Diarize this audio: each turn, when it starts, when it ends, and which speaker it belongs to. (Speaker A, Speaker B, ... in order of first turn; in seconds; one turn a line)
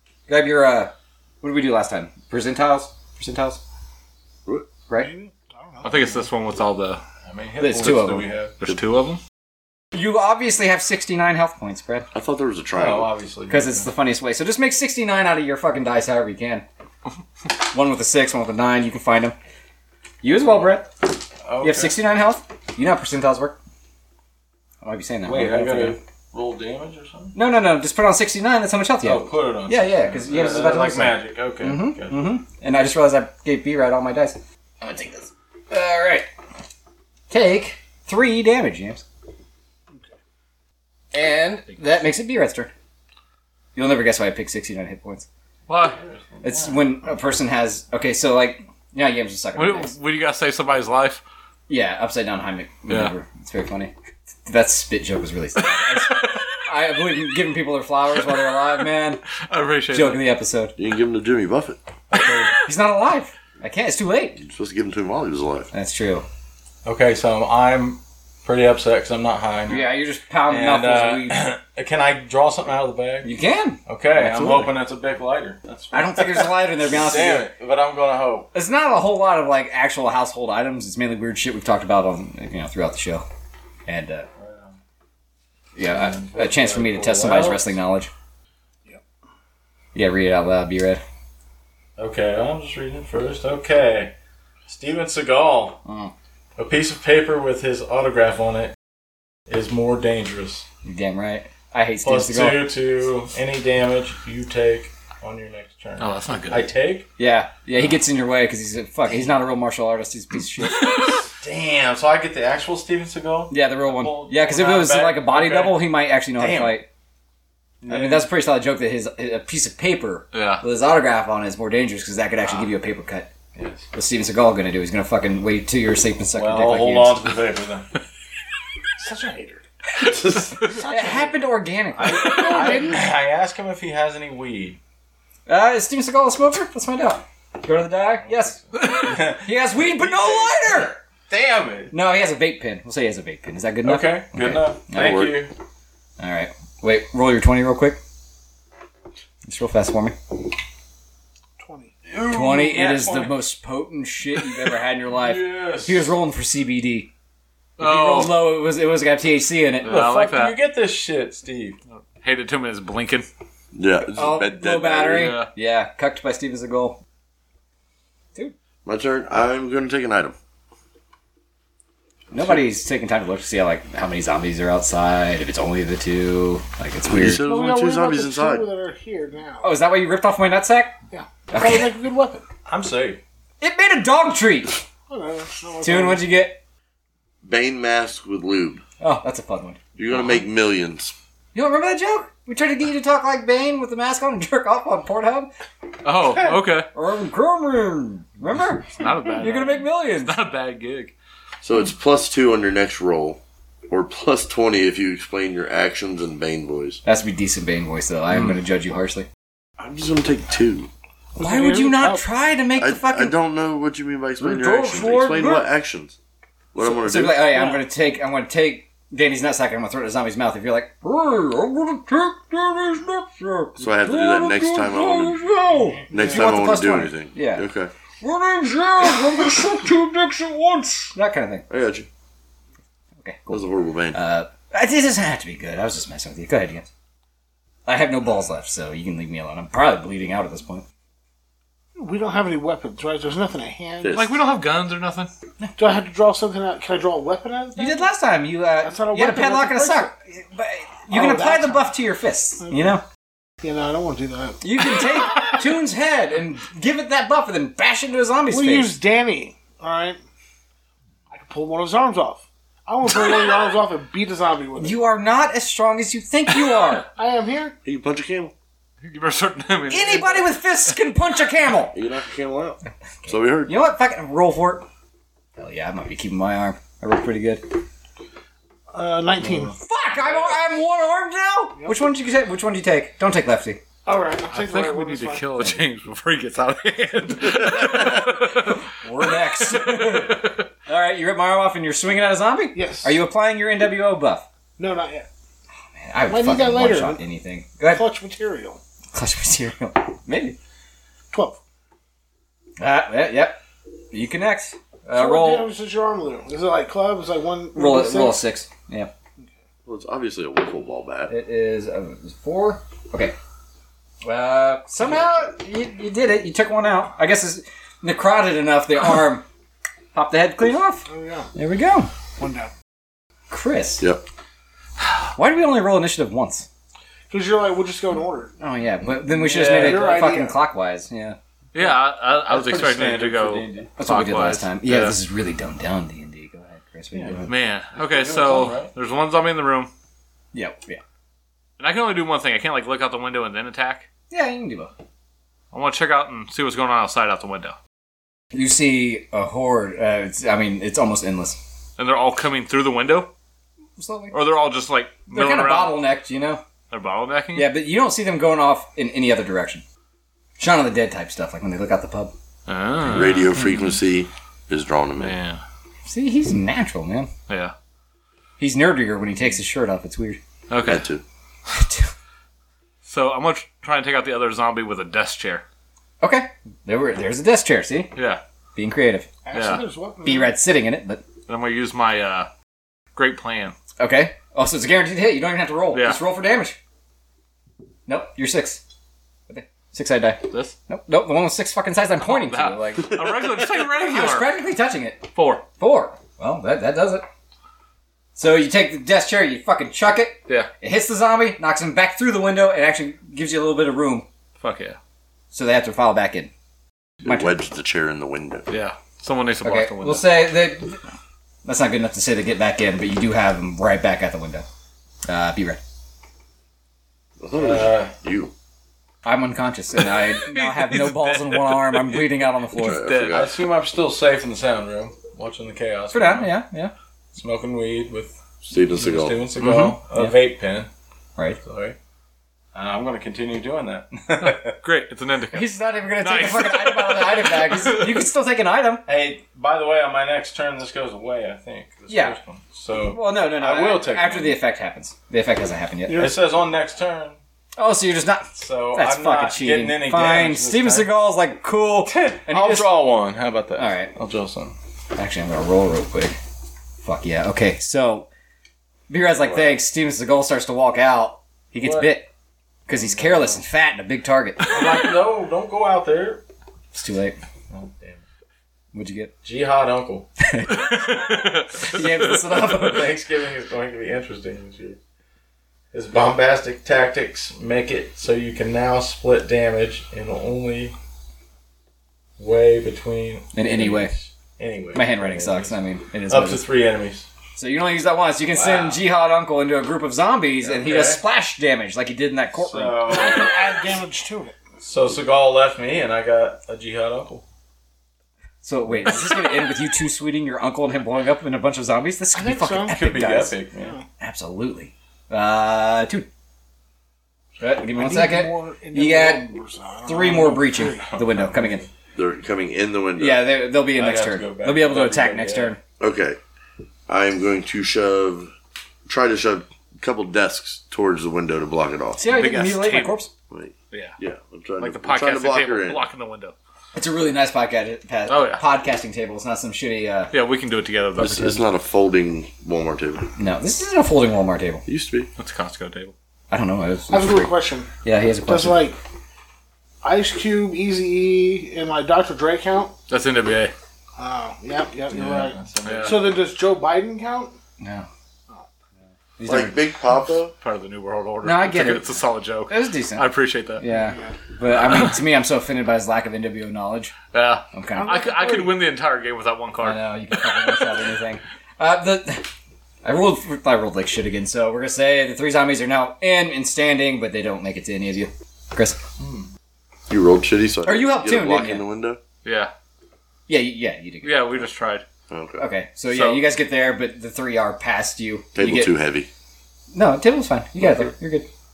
Speaker A: 0.3-3.6
Speaker B: 5.0-6.3
Speaker C: 5.8-7.0
Speaker D: 7.3-8.6
Speaker A: 7.6-8.3
Speaker C: 8.6-9.2
Speaker A: 9.9-12.1
Speaker E: 12.1-13.1
Speaker D: 12.7-13.9
Speaker A: 13.5-16.6
Speaker A: 17.6-19.4
Speaker A: 20.2-21.1
Speaker D: 21.4-22.0
Speaker A: 21.6-23.6
Speaker A: 24.8-26.0
Speaker D: 25.2-27.4
Speaker A: 27.4-36.3
Speaker D: 29.0-32.2
Speaker A: 37.3-39.0
Speaker A: 41.1-42.7
Speaker A: 43.8-45.3
Speaker C: 45.7-46.0
Speaker D: 45.8-46.9
Speaker A: 46.4-49.9
Speaker C: 49.5-51.2
Speaker A: 51.7-53.9
Speaker A: 54.5-59.2
Speaker C: 55.7-56.4
Speaker C: 59.4-60.2
Speaker A: 59.9-60.7
Speaker E: 60.8-61.8
Speaker D: 62.1-62.5
Speaker A: 62.6-64.4
Speaker E: 64.4-65.7
Speaker A: 65.7-66.2
Speaker D: 66.8-69.9
Speaker A: 69.7-71.4
Speaker D: 70.5-73.3
Speaker A: 73.2-74.7
Speaker D: 73.9-78.5
Speaker A: 75.9-77.5
Speaker A: 78.5-83.2
Speaker A: 83.9-84.3
Speaker D: 84.4-84.8
Speaker A: 85.8-88.1
Speaker D: 85.9-87.7
Speaker A: 89.9-91.0
Speaker D: 92.0-94.1
Speaker D: 94.7-95.8
Speaker A: 95.8-96.1
Speaker D: 96.6-98.7
Speaker D: 99.5-100.6
Speaker A: 100.8-102.7
Speaker D: 102.0-107.1
Speaker C: 106.0-106.7
Speaker A: 107.2-111.0
Speaker C: 110.8-111.1
Speaker D: 111.0-116.8
Speaker A: 113.5-116.9
Speaker D: 117.8-118.3
Speaker A: 117.9-123.3
Speaker C: 120.3-120.6
Speaker D: 123.5-123.8
Speaker A: 123.9-127.3
Speaker D: 126.3-127.9
Speaker B: 129.0-129.6
Speaker B: 130.6-131.4
Speaker A: 130.9-133.0
Speaker D: 132.0-134.8
Speaker B: 132.1-133.1
Speaker A: 135.5-141.0
Speaker D: 138.2-141.9
Speaker C: 138.8-139.0
Speaker A: 141.9-145.4
Speaker D: 143.8-145.5
Speaker E: 145.0-145.4
Speaker A: 146.2-148.0
Speaker A: 149.4-150.2
Speaker B: 151.6-151.9
Speaker D: 152.1-153.4
Speaker A: 152.3-157.1
Speaker D: 155.1-156.1
Speaker C: 157.8-158.4
Speaker A: 157.8-160.0
Speaker C: 159.8-160.6
Speaker D: 159.8-161.8
Speaker C: 161.9-163.3
Speaker E: 163.7-165.4
Speaker A: 164.1-167.0
Speaker C: 165.1-165.5
Speaker E: 168.8-170.3
Speaker A: 172.3-177.4
Speaker E: 177.1-178.7
Speaker B: 177.2-179.7
Speaker A: 179.6-181.0
Speaker B: 181.1-182.4
Speaker A: 181.5-181.9
Speaker D: 182.7-183.2
Speaker A: 183.6-184.8
Speaker B: 185.1-186.2
Speaker A: 185.8-186.6
Speaker E: 187.4-188.8
Speaker A: 189.0-189.8
Speaker E: 189.9-191.1
Speaker A: 191.5-195.5
Speaker C: 196.0-196.9
Speaker A: 196.9-200.4
Speaker C: 199.0-201.1
Speaker E: 201.6-207.0
Speaker A: 207.0-209.2
Speaker E: 209.8-210.9
Speaker B: 211.4-212.2
Speaker A: 211.4-213.3
Speaker E: 212.8-216.2
Speaker A: 214.4-215.7
Speaker E: 216.7-217.7
Speaker A: 216.8-227.7
Speaker E: 223.8-225.4
Speaker E: 226.1-227.9
Speaker A: 228.2-231.7
Speaker E: 231.7-232.1
Speaker A: 233.2-236.9
Speaker E: 233.5-234.2
Speaker A: 237.9-240.8
Speaker B: 241.9-244.2
Speaker E: 244.0-244.4
Speaker C: 244.1-245.3
Speaker B: 245.8-248.1
Speaker A: 247.8-253.0
Speaker B: 248.8-250.1
Speaker B: 251.1-251.9
Speaker B: 253.6-255.5
Speaker A: 254.6-258.9
Speaker B: 258.5-260.2
Speaker B: 261.3-265.0
Speaker A: 264.8-267.1
Speaker B: 267.1-267.8
Speaker E: 267.9-268.5
Speaker C: 269.0-270.5
Speaker A: 269.9-271.9
Speaker E: 271.9-273.7
Speaker A: 273.2-274.9
Speaker A: 275.6-277.8
Speaker B: 278.9-279.7
Speaker A: 279.7-283.8
Speaker B: 284.1-285.5
Speaker C: 284.5-290.6
Speaker A: 288.9-294.4
Speaker B: 292.7-293.2
Speaker B: 294.8-295.3
Speaker A: 296.0-298.0
Speaker B: 296.3-297.2
Speaker B: 297.9-298.8
Speaker A: 299.1-300.6
Speaker B: 301.3-301.6
Speaker A: 302.8-303.6
Speaker A: 304.1-305.7
Speaker B: 305.1-308.4
Speaker A: 307.7-309.1
Speaker E: 309.9-311.3
Speaker A: 311.3-313.4
Speaker A: 314.2-319.4
Speaker A: 320.1-322.1
Speaker B: 321.1-321.5
Speaker B: 322.4-322.7
Speaker A: 323.5-324.0
Speaker A: 325.3-326.7
Speaker B: 327.3-328.5
Speaker A: 328.6-331.4
Speaker D: 329.3-330.3
Speaker B: 329.6-330.6
Speaker C: 331.7-335.1
Speaker D: 332.5-333.9
Speaker A: 334.0-337.5
Speaker D: 337.1-338.9
Speaker C: 337.5-339.9
Speaker A: 340.5-341.0
Speaker C: 341.8-344.1
Speaker A: 344.3-344.9
Speaker C: 345.7-347.8
Speaker A: 348.5-351.6
Speaker C: 352.0-353.3
Speaker A: 354.0-354.4
Speaker C: 354.3-356.0
Speaker A: 355.3-356.6
Speaker C: 356.9-357.7
Speaker A: 357.5-359.8
Speaker A: 360.6-362.3
Speaker C: 362.7-363.5
Speaker E: 363.1-365.4
Speaker C: 365.2-365.6
Speaker A: 366.1-367.3
Speaker C: 367.5-367.7
Speaker A: 368.6-370.4
Speaker C: 370.7-371.0
Speaker E: 370.9-371.2
Speaker A: 371.7-372.1
Speaker C: 373.0-375.6
Speaker A: 376.2-378.1
Speaker C: 378.1-378.4
Speaker A: 378.8-379.3
Speaker B: 379.4-380.5
Speaker C: 379.5-379.8
Speaker A: 380.2-381.2
Speaker C: 381.5-382.5
Speaker C: 383.1-383.7
Speaker A: 384.0-386.8
Speaker C: 385.9-386.2
Speaker A: 388.1-388.8
Speaker A: 389.5-393.2
Speaker C: 390.5-390.7
Speaker C: 392.2-394.5
Speaker A: 394.0-397.2
Speaker C: 395.4-395.6
Speaker A: 398.4-404.2
Speaker C: 404.6-405.0
Speaker A: 405.5-406.5
Speaker E: 407.2-408.7
Speaker A: 407.2-407.5
Speaker C: 408.7-410.3
Speaker A: 409.6-411.0
Speaker A: 411.6-414.6
Speaker A: 415.2-415.8
Speaker E: 417.4-418.5
Speaker D: 417.5-418.1
Speaker A: 419.2-423.0
Speaker C: 420.3-423.4
Speaker E: 422.8-423.6
Speaker D: 423.3-426.5
Speaker A: 426.1-426.9
Speaker D: 427.3-430.9
Speaker E: 428.7-429.4
Speaker A: 429.6-430.4
Speaker D: 431.6-431.9
Speaker D: 432.7-434.8
Speaker C: 434.4-438.2
Speaker A: 435.5-439.0
Speaker D: 439.1-444.6
Speaker A: 442.1-442.4
Speaker A: 443.0-446.3
Speaker B: 446.1-446.5
Speaker D: 446.1-447.4
Speaker A: 447.8-453.0
Speaker D: 448.6-451.1
Speaker D: 452.1-454.7
Speaker A: 453.7-454.1
Speaker A: 455.1-456.4
Speaker A: 457.0-458.3
Speaker A: 459.1-462.3
Speaker D: 461.8-462.2
Speaker A: 462.9-464.8
Speaker D: 462.9-463.6
Speaker D: 464.6-466.4
Speaker A: 466.9-467.4
Speaker D: 467.7-468.2
Speaker A: 468.9-469.3
Speaker D: 469.4-470.3
Speaker A: 470.4-471.0
Speaker C: 470.7-472.1
Speaker A: 471.8-473.1
Speaker D: 472.2-475.0
Speaker D: 475.9-480.9
Speaker D: 482.4-487.3
Speaker A: 483.5-484.1
Speaker A: 484.9-486.6
Speaker A: 487.6-493.1
Speaker D: 488.5-489.0
Speaker D: 490.6-491.2
Speaker D: 492.5-493.9
Speaker B: 493.1-494.6
Speaker D: 494.8-497.4
Speaker A: 498.6-503.6
Speaker B: 502.4-503.0
Speaker D: 502.9-503.9
Speaker B: 503.8-504.0
Speaker A: 504.2-506.3
Speaker A: 507.6-509.4
Speaker B: 507.9-511.0
Speaker A: 510.0-511.9
Speaker D: 511.0-511.9
Speaker E: 512.1-513.4
Speaker A: 513.2-515.8
Speaker D: 513.9-515.8
Speaker E: 516.0-516.4
Speaker E: 517.1-518.5
Speaker E: 519.1-522.3
Speaker A: 522.2-523.3
Speaker C: 522.2-523.2
Speaker E: 523.5-526.0
Speaker C: 524.8-526.5
Speaker A: 526.9-530.3
Speaker C: 528.3-528.6
Speaker C: 530.3-531.6
Speaker E: 531.2-533.3
Speaker A: 533.4-534.8
Speaker E: 534.9-535.3
Speaker C: 535.4-536.1
Speaker A: 536.5-537.5
Speaker B: 537.1-537.9
Speaker A: 538.0-538.9
Speaker B: 538.5-539.0
Speaker B: 540.0-542.9
Speaker C: 543.1-543.7
Speaker B: 544.2-547.5
Speaker D: 545.1-546.4
Speaker C: 545.8-546.2
Speaker A: 547.8-548.1
Speaker A: 549.4-549.9
Speaker E: 549.4-550.5
Speaker C: 550.6-553.8
Speaker A: 551.4-552.2
Speaker A: 552.7-557.1
Speaker B: 553.9-554.4
Speaker C: 557.3-560.9
Speaker A: 557.7-558.2
Speaker B: 557.9-558.8
Speaker A: 559.8-562.5
Speaker A: 563.0-569.0
Speaker D: 569.2-569.5
Speaker E: 570.1-572.2
Speaker A: 570.9-571.8
Speaker C: 572.4-572.7
Speaker A: 573.5-574.6
Speaker C: 574.2-575.0
Speaker E: 575.3-575.6
Speaker A: 575.6-578.9
Speaker C: 576.1-576.4
Speaker E: 578.5-579.3
Speaker A: 579.9-581.5